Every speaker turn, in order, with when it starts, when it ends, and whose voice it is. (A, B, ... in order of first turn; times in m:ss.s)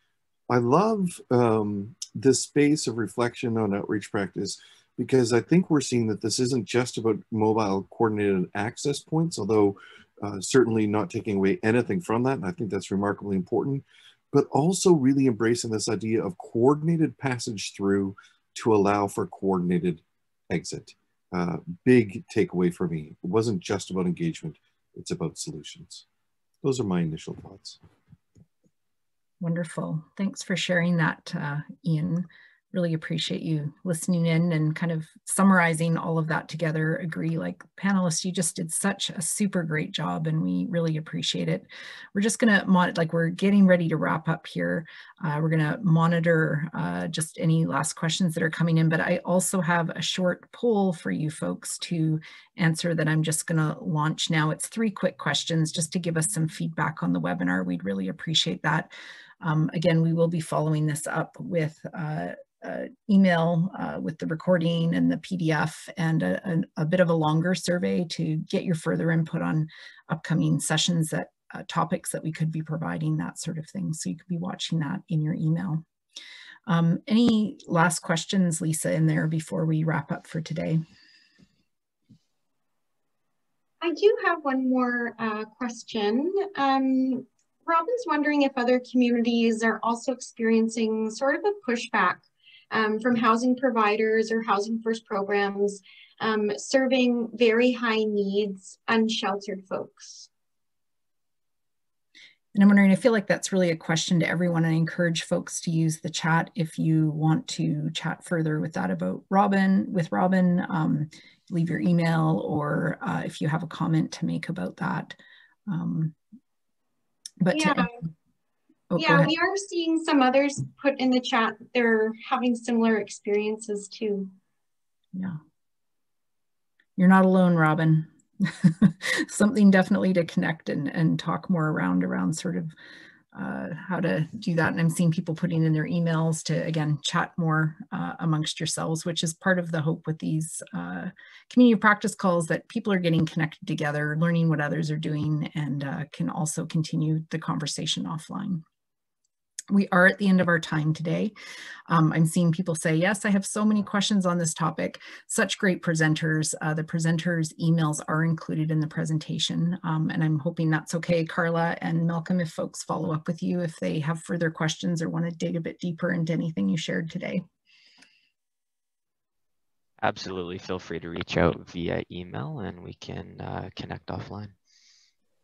0:00.5-0:26.0 A
0:26.6-0:27.8 A
0:29.4-1:15.8 B
1:16.7-1:20.8 B
1:23.8-1:40.3 C
1:42.5-1:56.1 B
1:57.4-1:57.9 B
1:57.5-1:57.9 C
1:58.9-1:59.3 B
1:59.0-2:04.3 C
2:05.1-2:05.4 B
2:07.0-2:12.7 B
2:13.3-2:28.6 B
2:29.7-2:31.3 B
2:31.9-2:47.4 B
2:50.0-2:54.5 D